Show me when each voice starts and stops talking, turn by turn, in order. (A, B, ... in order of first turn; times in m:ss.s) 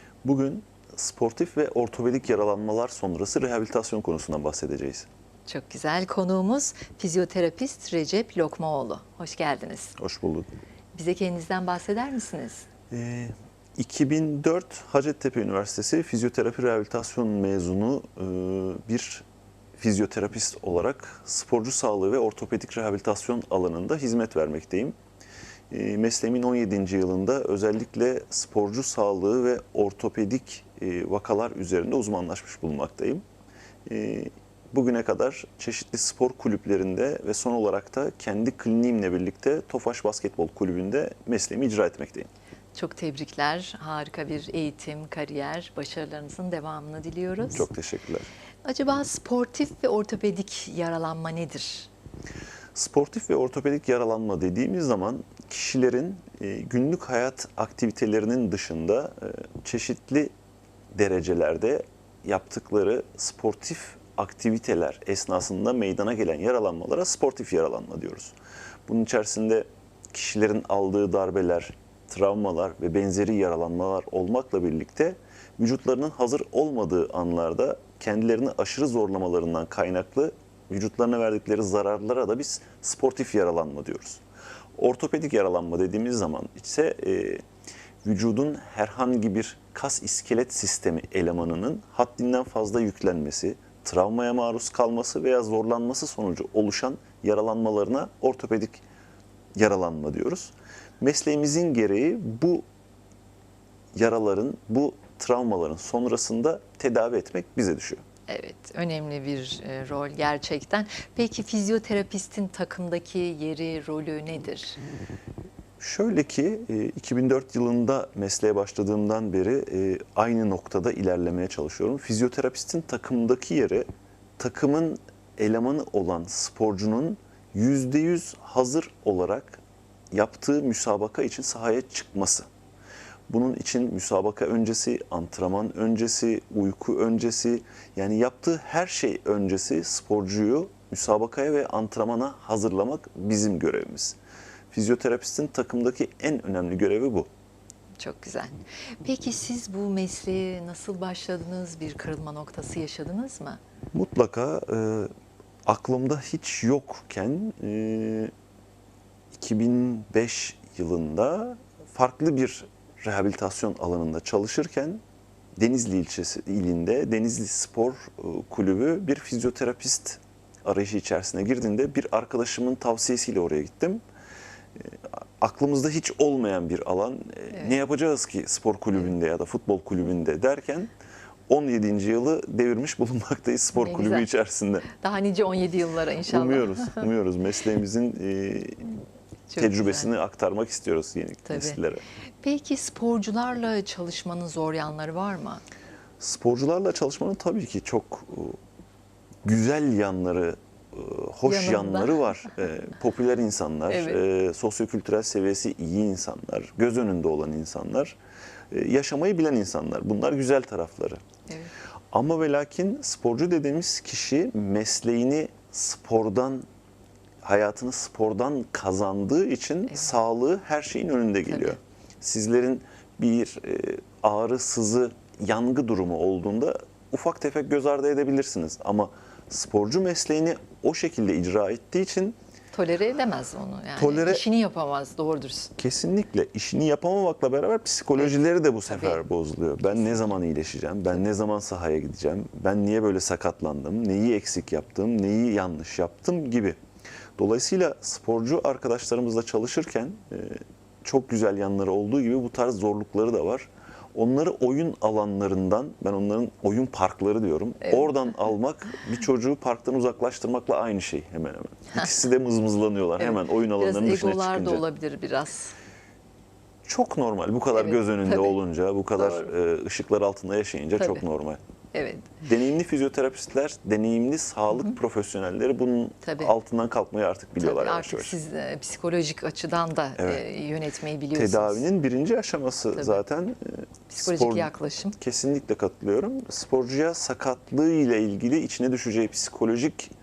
0:00.2-0:05.1 A
0:05.5-0:09.9 B
0:10.0-0:10.5 A
0:10.9-0:12.7 B
0:12.9-0:19.2 A
0:19.8-0:25.0 A
0:25.7-0:33.2 A
0:33.8-0:42.3 A
0:42.7-0:47.7 B
0:47.5-0:48.3 A
0:48.6-0:51.9 B
0:52.7-1:00.3 A
1:00.9-1:08.4 A
1:08.9-1:24.2 A
1:24.8-1:27.4 A
1:28.0-1:38.8 A
1:39.5-1:42.6 A
1:43.9-1:48.0 A
1:48.3-1:54.8 B
1:55.8-2:03.8 A
2:04.4-2:09.6 A
2:10.1-2:12.5 A
2:13.3-2:24.2 A
2:24.7-2:27.3 A
2:28.0-2:33.6 B
2:33.9-2:35.1 A
2:35.6-2:38.3 A
2:39.3-2:45.0 A
2:45.6-2:54.0 A
2:54.8-3:00.9 A
3:01.5-3:04.9 A
3:03.8-3:04.3 B
3:04.9-3:07.1 B
3:06.2-3:09.0 A
3:09.5-3:10.1 B
3:09.6-3:12.0 A
3:11.4-3:11.8 B
3:12.4-3:15.6 B
3:16.2-3:18.6 A
3:19.4-3:28.2 A
3:21.4-3:22.4 B
3:23.9-3:24.2 B
3:28.7-3:31.2 A
3:32.1-3:36.6 A
3:37.4-3:52.4 A
3:39.9-3:40.1 B
3:41.5-3:41.8 B
3:52.7-3:55.7 B
3:54.0-3:54.4 A
3:55.8-4:06.8 A
3:58.9-3:59.2 B
3:59.8-4:00.4 B
4:07.4-4:24.8 A
4:17.8-4:18.2 B
4:23.2-4:25.8 B
4:26.8-4:31.6 A
4:27.7-4:28.6 B
4:29.2-4:29.5 B
4:31.9-4:32.4 B
4:32.4-4:38.3 A
4:34.7-4:35.0 B
4:36.2-4:36.5 B
4:37.6-4:41.9 B
4:40.2-4:40.4 A
4:41.3-4:50.1 A
4:43.0-4:43.2 B
4:44.1-4:45.2 B